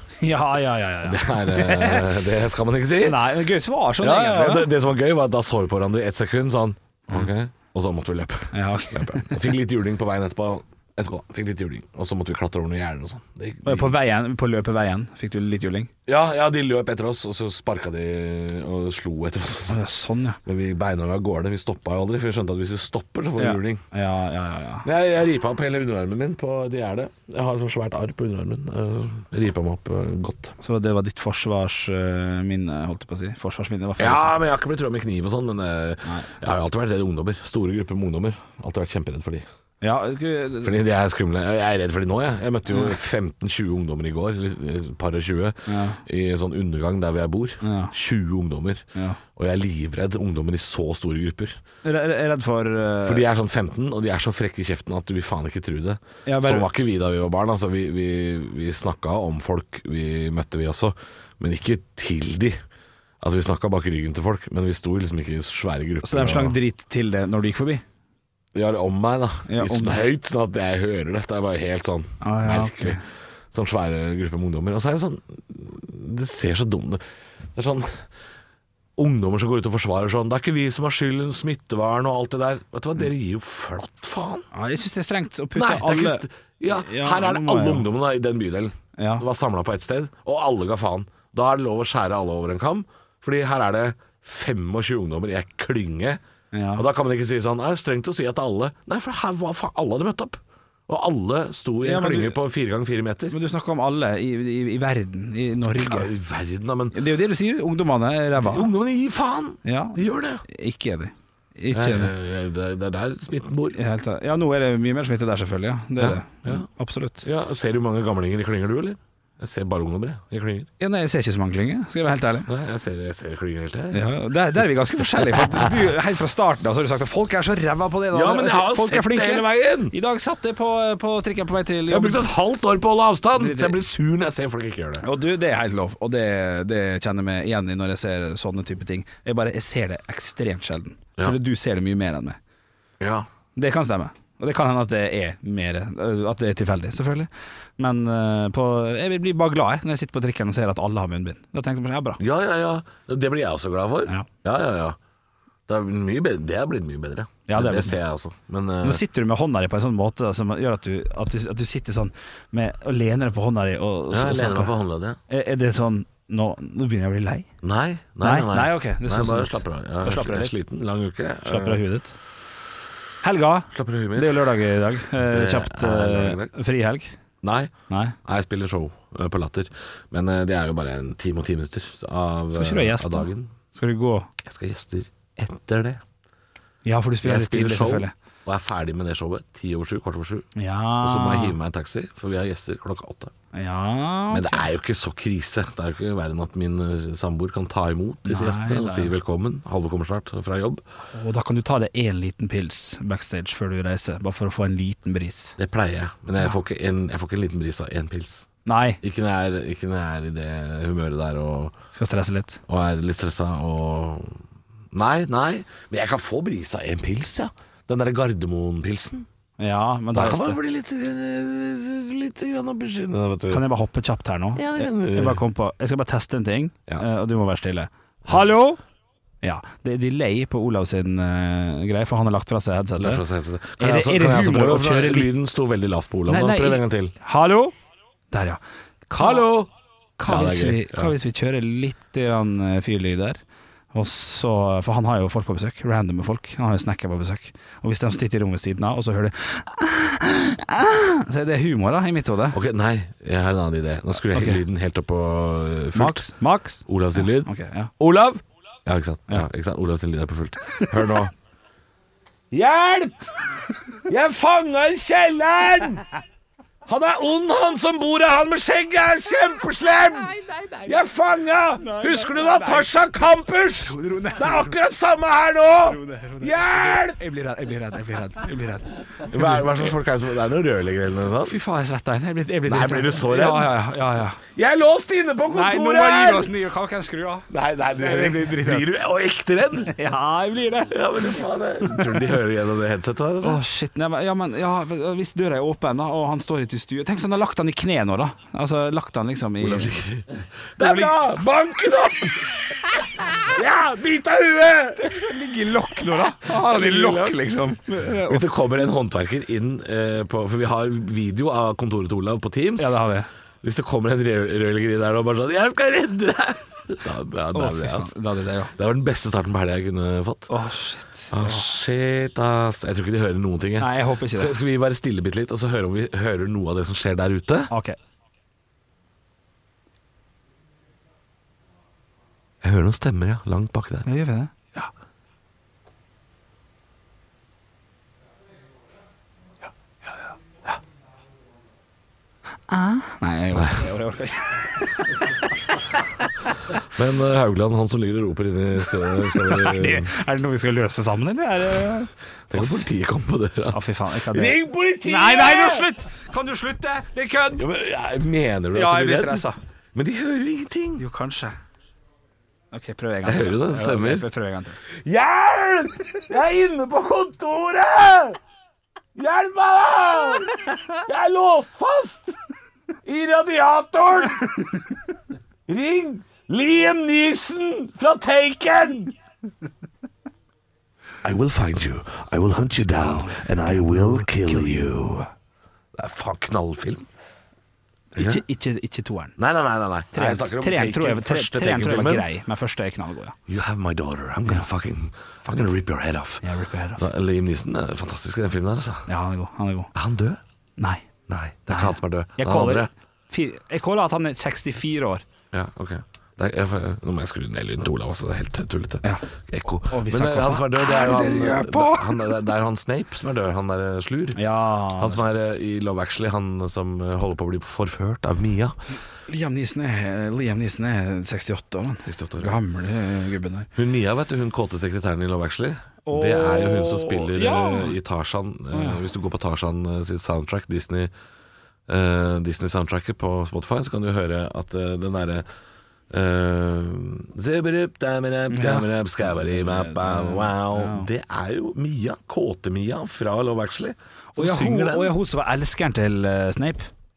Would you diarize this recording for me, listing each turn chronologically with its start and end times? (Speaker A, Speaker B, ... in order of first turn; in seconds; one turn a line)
Speaker A: 0.2-2.2
Speaker B: 1.1-3.3
Speaker A: 3.0-4.7
Speaker B: 4.0-13.9
Speaker A: 8.5-9.5
Speaker A: 13.6-15.9
Speaker B: 16.1-19.8
Speaker A: 19.7-20.4
Speaker B: 20.4-23.8
Speaker A: 23.4-24.9
Speaker B: 24.8-30.6
Speaker A: 30.6-34.4
Speaker B: 34.0-39.5
Speaker A: 36.0-36.3
Speaker A: 39.8-40.8
Speaker B: 40.6-51.6
Speaker A: 42.7-43.0
Speaker A: 45.7-46.0
Speaker A: 47.6-47.9
Speaker A: 49.0-49.2
Speaker A: 51.8-53.3
Speaker B: 53.0-62.6
Speaker A: 56.3-56.7
Speaker B: 63.2-66.6
Speaker A: 66.0-67.8
Speaker B: 68.5-73.0
Speaker A: 69.5-70.1
Speaker A: 72.2-73.0
Speaker B: 73.5-77.0
Speaker B: 77.5-78.1
Speaker B: 79.0-84.5
Speaker A: 84.5-87.9
Speaker B: 85.5-96.2
Speaker A: 89.0-89.2
Speaker A: 96.5-96.8
Speaker B: 96.8-103.3
Speaker A: 101.8-102.4
Speaker A: 103.3-106.1
Speaker B: 105.8-107.0
Speaker A: 106.9-108.7
Speaker B: 108.4-110.4
Speaker A: 109.7-112.1
Speaker B: 111.7-113.8
Speaker A: 113.7-117.2
Speaker B: 116.0-116.7
Speaker B: 117.2-120.7
Speaker A: 120.8-122.5
Speaker B: 122.5-124.0
Speaker A: 123.9-132.3
Speaker B: 125.2-125.9
Speaker B: 128.1-129.9
Speaker B: 131.9-135.0
Speaker A: 133.4-133.8
Speaker A: 135.0-142.4
Speaker B: 143.0-143.3
Speaker A: 143.6-152.2
Speaker B: 152.2-155.0
Speaker B: 155.7-159.0
Speaker A: 157.5-158.0
Speaker A: 158.8-164.7
Speaker B: 164.1-165.2
Speaker A: 165.3-167.5
Speaker B: 167.6-171.8
Speaker A: 168.2-170.6
Speaker A: 171.4-172.2
Speaker A: 173.2-177.2
Speaker B: 173.7-174.5
Speaker B: 175.1-176.5
Speaker B: 177.4-177.7
Speaker A: 177.9-178.2
Speaker B: 178.2-183.5
Speaker A: 182.5-184.3
Speaker B: 184.4-186.0
Speaker A: 186.8-188.1
Speaker B: 187.2-190.5
Speaker A: 190.6-191.5
Speaker B: 191.0-193.3
Speaker A: 193.5-194.7
Speaker B: 194.3-200.8
Speaker A: 198.2-199.1
Speaker A: 201.1-205.6
Speaker B: 205.6-208.5
Speaker A: 208.7-209.0
Speaker B: 209.0-211.8
Speaker A: 211.9-212.6
Speaker B: 212.7-219.3
Speaker A: 219.6-220.6
Speaker B: 220.1-223.6
Speaker A: 223.5-228.8
Speaker B: 224.6-225.4
Speaker A: 229.4-233.2
Speaker B: 233.0-237.1
Speaker A: 233.8-235.3
Speaker A: 236.3-237.7
Speaker A: 238.3-239.4
Speaker B: 239.2-239.7
Speaker A: 240.2-243.4
Speaker B: 240.2-241.1
Speaker A: 243.9-252.6
Speaker B: 252.5-256.3
Speaker A: 254.2-254.6
Speaker A: 255.9-257.9
Speaker B: 256.9-261.3
Speaker B: 262.5-263.3
Speaker B: 264.1-266.0
Speaker B: 266.9-277.2
Speaker A: 271.8-272.9
Speaker A: 273.9-274.8
Speaker A: 275.8-279.9
Speaker B: 279.2-281.6
Speaker A: 281.5-284.4
Speaker B: 282.7-283.7
Speaker B: 284.6-286.5
Speaker A: 285.5-288.9
Speaker B: 287.5-289.9
Speaker A: 289.9-291.0
Speaker B: 290.9-293.6
Speaker A: 291.8-292.3
Speaker A: 293.4-300.0
Speaker B: 299.6-305.1
Speaker A: 300.8-301.2
Speaker A: 304.9-308.5
Speaker B: 306.4-313.0
Speaker A: 312.8-313.3
Speaker B: 313.6-318.1
Speaker A: 317.5-318.8
Speaker B: 318.8-320.5
Speaker A: 320.5-321.7
Speaker B: 321.3-327.7
Speaker A: 323.8-324.6
Speaker A: 327.7-328.0
Speaker B: 332.6-334.1
Speaker A: 334.1-334.9
Speaker A: 342.7-346.8
Speaker B: 343.5-343.9
Speaker B: 346.8-350.1
Speaker A: 349.2-352.8
Speaker B: 352.5-355.9
Speaker A: 353.7-357.7
Speaker B: 357.6-361.0
Speaker A: 358.7-359.6
Speaker A: 361.0-361.6
Speaker A: 362.7-364.8
Speaker B: 363.2-364.2
Speaker B: 364.9-368.4
Speaker B: 369.1-372.4
Speaker B: 373.1-374.8
Speaker B: 375.7-379.1
Speaker B: 381.2-385.3
Speaker A: 383.0-384.9
Speaker B: 385.9-387.1
Speaker A: 388.1-389.4
Speaker B: 388.2-388.4
Speaker B: 389.4-392.3
Speaker A: 390.1-393.4
Speaker B: 393.5-396.4
Speaker A: 396.4-397.0
Speaker B: 397.0-399.1
Speaker A: 399.1-399.9
Speaker B: 399.9-400.4
Speaker A: 400.8-401.1
Speaker B: 401.3-402.9
Speaker A: 401.7-405.2
Speaker B: 405.5-414.4
Speaker A: 409.9-412.3
Speaker A: 414.4-415.2
Speaker B: 415.0-418.7
Speaker A: 419.3-423.7
Speaker B: 422.0-422.6
Speaker B: 423.8-431.1
Speaker A: 426.1-428.0
Speaker A: 428.7-429.1
Speaker B: 431.9-435.4
Speaker B: 436.1-445.1
Speaker A: 438.5-441.1
Speaker A: 444.3-446.9